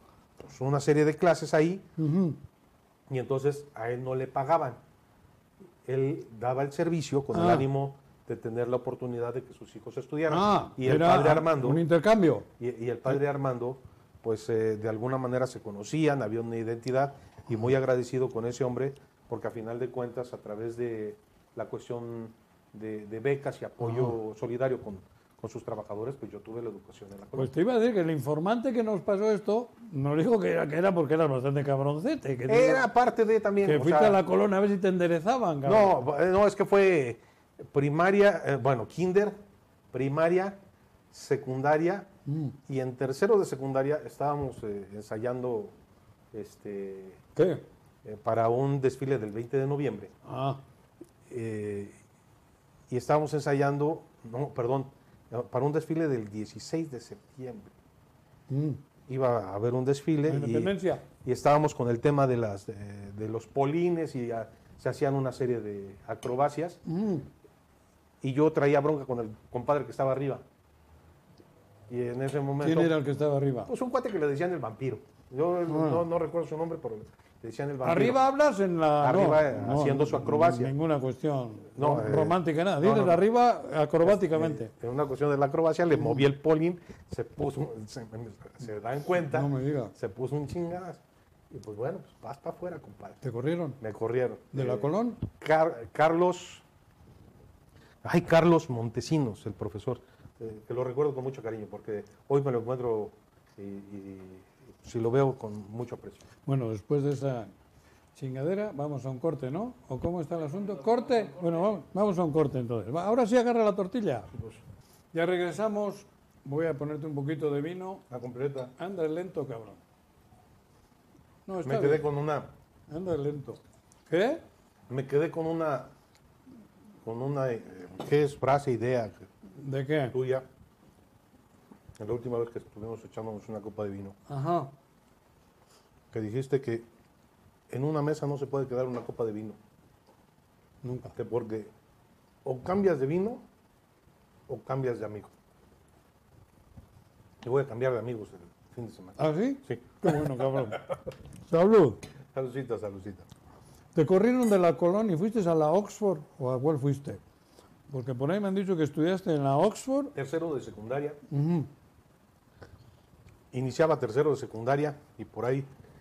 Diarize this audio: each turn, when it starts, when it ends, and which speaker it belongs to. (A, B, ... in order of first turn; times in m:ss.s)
0:00.4-0:01.8 A
0:02.0-0:02.4 B
0:03.1-0:04.8 A
0:05.8-0:11.8 A
0:07.3-0:07.7 B
0:10.3-0:12.4 B
0:12.6-0:27.5 A
0:23.8-0:24.1 B
0:27.3-0:32.9 B
0:32.5-0:34.2 A
0:33.6-0:36.0 B
0:35.6-0:39.3 A
0:39.9-0:40.6 A
0:41.1-0:42.1 A
0:42.2-0:42.6 B
0:42.7-0:45.7 A
0:46.3-0:47.2 A
0:47.4-0:47.6 B
0:48.0-0:50.1 A
0:50.2-0:50.6 B
0:51.3-0:52.0 A
0:52.9-0:57.7 A
0:58.5-0:58.8 B
0:59.1-1:06.8 A
1:00.3-1:01.0 B
1:06.8-1:07.3 B
1:08.2-1:10.4 A
1:11.9-1:13.0 A
1:12.6-1:13.7 B
1:13.7-1:18.2 A
1:15.7-1:16.0 B
1:17.8-1:24.7 B
1:19.0-1:20.7 A
1:21.8-1:23.2 A
1:24.0-1:33.2 A
1:29.3-1:29.9 B
1:33.2-1:33.8 B
1:33.8-1:36.6 A
1:34.5-1:35.2 B
1:38.0-1:46.2 A
1:46.4-1:47.5 B
1:48.1-1:54.3 B
1:54.3-1:54.6 A
1:55.1-1:58.0 B
1:58.1-1:58.7 A
1:58.8-1:59.8 B
2:01.4-2:02.1 B
2:01.6-2:02.5 A
2:02.9-2:04.4 B
2:04.9-2:05.9 A
2:07.0-2:09.2 A
2:09.6-2:10.2 B
2:10.1-2:10.4 A
2:12.0-2:14.2 A
2:14.3-2:14.7 B
2:16.1-2:16.8 A
2:17.7-2:19.6 A
2:20.8-2:21.1 B
2:21.1-2:21.7 A
2:22.4-2:23.4 A
2:24.5-2:25.3 A
2:27.4-2:30.8 A
2:29.2-2:30.9 B
2:31.5-2:32.0 B
2:32.3-2:33.2 A
2:33.9-2:37.2 B
2:37.9-2:40.1 B
2:40.1-2:41.2 A
2:41.3-2:41.7 B
2:43.5-2:45.7 A